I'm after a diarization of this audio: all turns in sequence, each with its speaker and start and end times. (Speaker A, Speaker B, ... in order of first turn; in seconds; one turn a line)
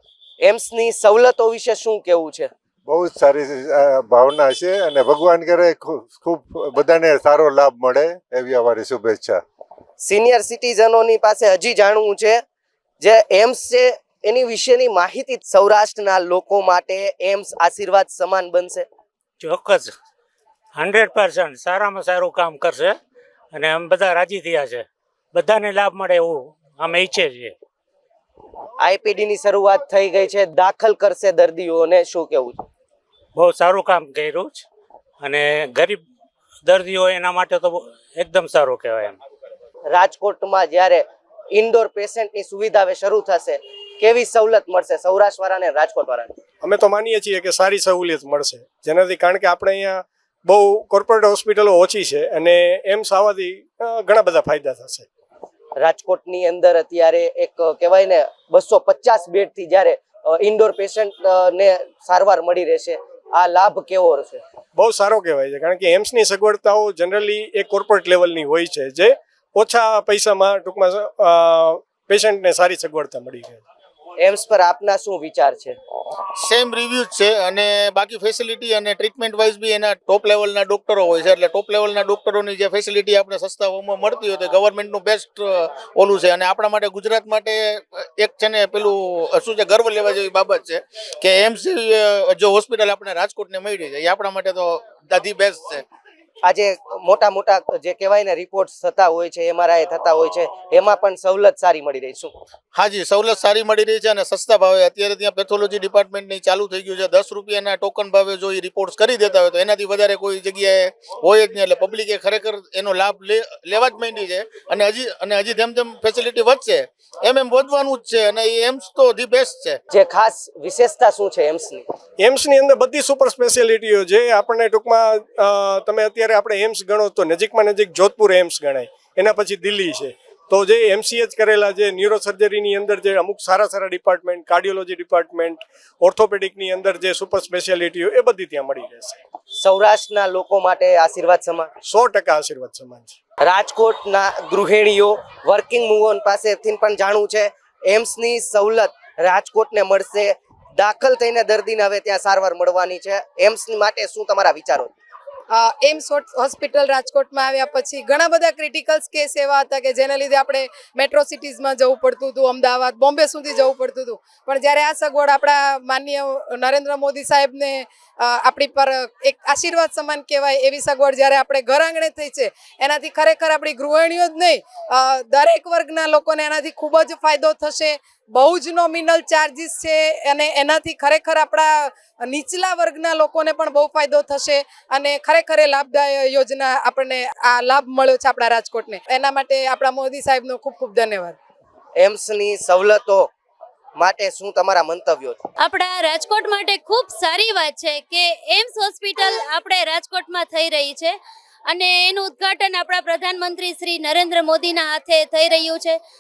Speaker A: 0.4-2.5
Speaker B: 2.9-9.4
Speaker A: 10.0-12.4
Speaker A: 13.0-18.9
Speaker C: 19.4-19.9
Speaker C: 20.8-23.0
Speaker C: 23.5-27.6
Speaker A: 28.8-32.6
Speaker C: 33.4-34.7
Speaker C: 35.2-36.0
Speaker C: 36.6-39.2
Speaker A: 39.9-46.4
Speaker D: 46.6-55.0
Speaker A: 55.8-64.4
Speaker D: 64.8-73.6
Speaker A: 74.2-75.8
Speaker E: 76.4-95.8
Speaker A: 96.4-102.3
Speaker E: 102.8-119.8
Speaker A: 119.9-121.9
Speaker D: 122.2-139.2
Speaker A: 139.6-141.7
Speaker D: 141.8-143.2
Speaker A: 143.4-154.9
Speaker F: 155.5-191.4
Speaker A: 192.0-193.3
Speaker A: 194.0-195.4
Speaker G: 195.6-201.2
Speaker G: 201.7-206.0